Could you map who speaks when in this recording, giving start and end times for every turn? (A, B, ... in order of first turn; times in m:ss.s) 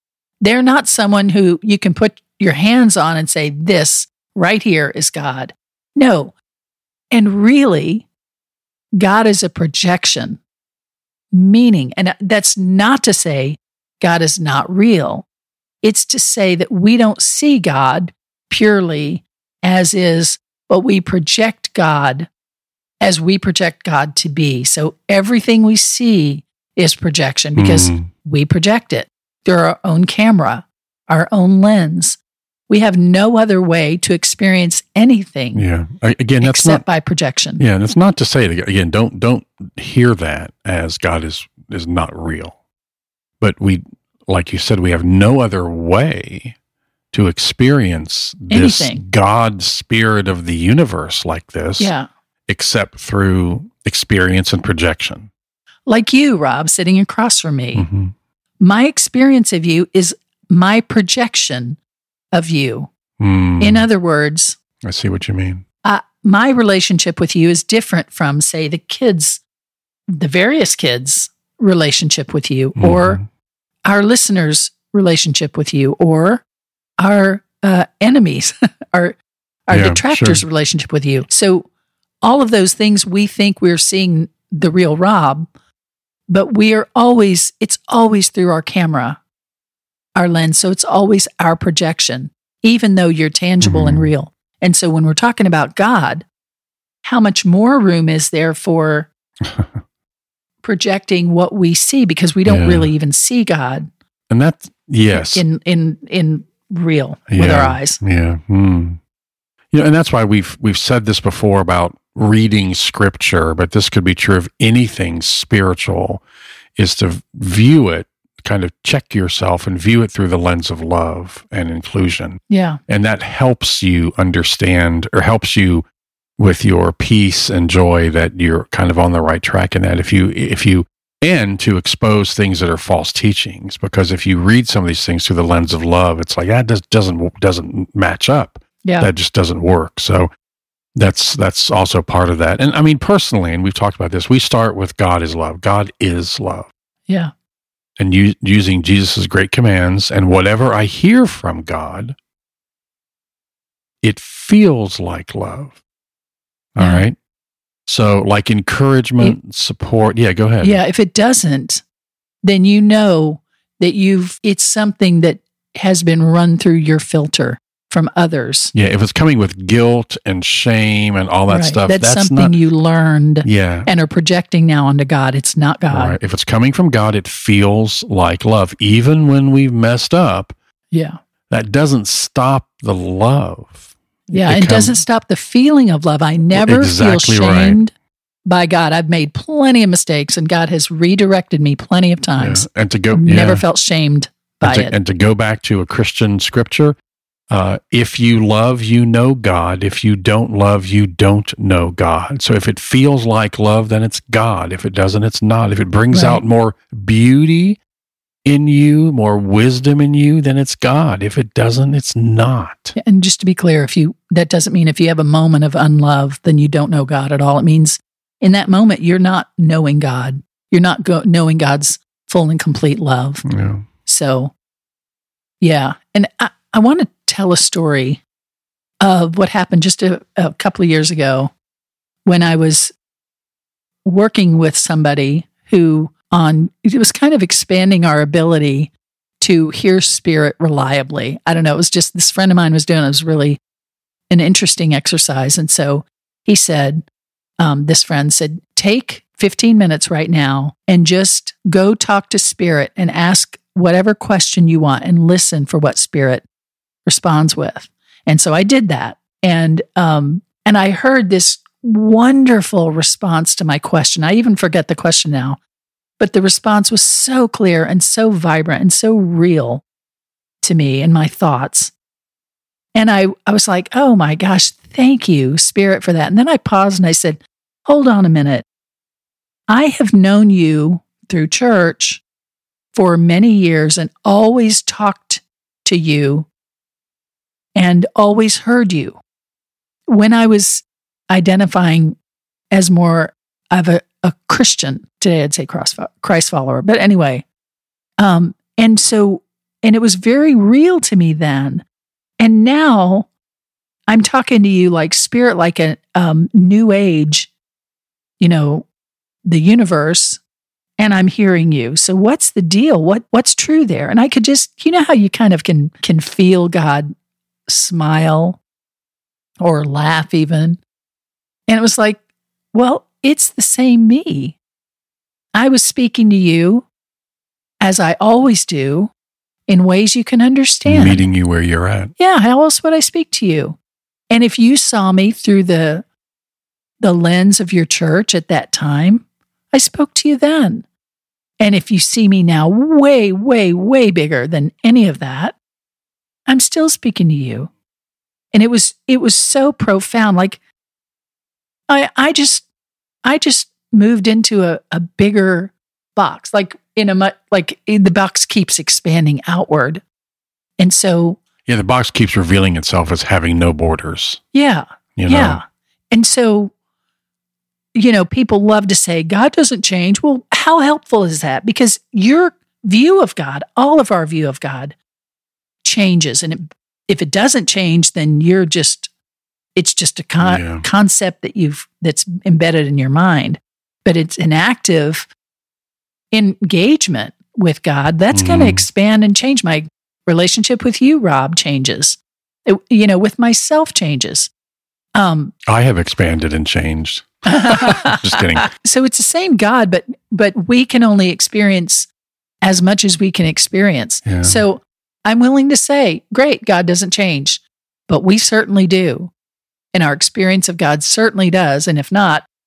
0:00.4-0:06.3 A
0:07.1-0:08.0 A
0:09.0-0:10.4 A
0:11.3-0:15.3 A
0:15.8-0:22.3 A
0:23.0-0:32.2 A
0:27.6-0:28.1 B
0:32.7-0:35.6 A
0:35.5-0:36.8 B
0:36.4-0:37.6 A
0:37.6-0:42.6 B
0:43.4-0:46.5 B
0:47.1-0:51.9 B
0:48.5-0:49.0 A
0:51.8-0:52.1 A
0:52.5-0:55.3 B
0:55.9-0:57.8 A
0:57.7-0:58.1 B
0:58.6-1:01.8 A
1:02.3-1:02.9 A
1:03.2-1:03.8 B
1:03.6-1:04.6 A
1:04.8-1:05.6 B
1:05.8-1:09.4 A
1:10.1-1:13.2 A
1:12.8-1:13.2 B
1:13.8-1:16.4 A
1:17.0-1:21.7 A
1:19.7-1:20.4 B
1:22.2-1:25.5 A
1:26.3-1:29.2 A
1:30.2-1:36.2 A
1:33.6-1:34.1 B
1:37.0-1:39.1 A
1:39.4-1:39.8 B
1:40.6-1:43.9 A
1:42.4-1:42.9 B
1:44.3-1:45.4 B
1:45.1-1:48.0 A
1:47.3-1:49.0 B
1:49.7-1:56.2 B
1:56.8-2:05.8 B
2:02.5-2:02.8 A
2:06.4-2:20.3 B
2:18.8-2:19.1 A
2:20.9-2:26.7 B
2:28.0-2:32.2 B
2:34.0-2:35.8 B
2:36.7-2:37.2 B
2:36.8-2:37.0 A
2:37.9-2:40.8 B
2:40.6-2:41.8 A
2:42.4-2:48.7 A
2:48.7-2:52.5 B
2:51.5-2:56.2 A
2:53.4-2:53.9 B
2:55.9-3:00.5 B
3:00.9-3:01.2 A
3:01.5-3:05.0 B
3:04.3-3:07.9 A
3:06.5-3:07.8 B
3:08.4-3:14.9 A
3:12.4-3:13.6 B
3:14.6-3:17.0 B
3:17.5-3:27.8 B
3:26.1-3:26.4 A
3:28.4-3:33.0 B
3:33.0-3:43.4 A
3:43.4-3:43.8 B
3:44.0-3:44.5 A
3:45.6-3:48.2 A
3:49.0-3:51.5 A
3:52.2-3:52.9 A
3:54.0-4:03.6 A
4:04.3-4:07.0 A
4:07.6-4:16.4 A
4:17.0-4:25.6 A
4:26.2-4:29.8 A
4:30.6-4:31.9 A
4:32.9-4:38.6 A
4:39.7-4:42.2 A
4:42.9-4:46.5 A
4:47.8-4:49.2 A
4:50.1-4:52.2 A
4:52.7-4:57.4 A
4:58.2-5:01.8 A
5:02.4-5:03.3 A
5:04.1-5:07.5 A
5:08.4-5:08.9 A
5:09.4-5:10.4 A
5:11.0-5:17.1 A
5:17.7-5:18.6 A
5:19.6-5:20.8 A
5:21.7-5:22.2 A
5:22.7-5:24.6 A
5:25.5-5:26.8 A
5:27.8-5:29.1 A
5:29.7-5:31.2 A
5:30.8-5:32.1 B
5:32.2-5:33.8 A
5:34.3-5:36.0 A
5:37.0-5:40.8 A
5:41.6-5:45.6 A
5:46.5-5:47.7 A
5:48.5-5:50.6 A
5:51.9-5:52.6 A
5:53.2-6:00.0 A
6:00.8-6:01.4 A
6:01.6-6:04.4 B
6:04.5-6:06.7 A
6:05.2-6:05.6 B
6:07.9-6:15.0 A
6:15.8-6:19.1 A
6:19.8-6:25.3 A
6:20.4-6:20.8 B
6:26.3-6:34.5 A
6:28.3-6:28.8 B
6:35.1-6:35.5 A
6:35.6-6:38.7 B
6:37.5-6:42.1 A
6:42.6-6:49.3 A
6:44.2-6:44.6 B
6:49.9-6:52.4 A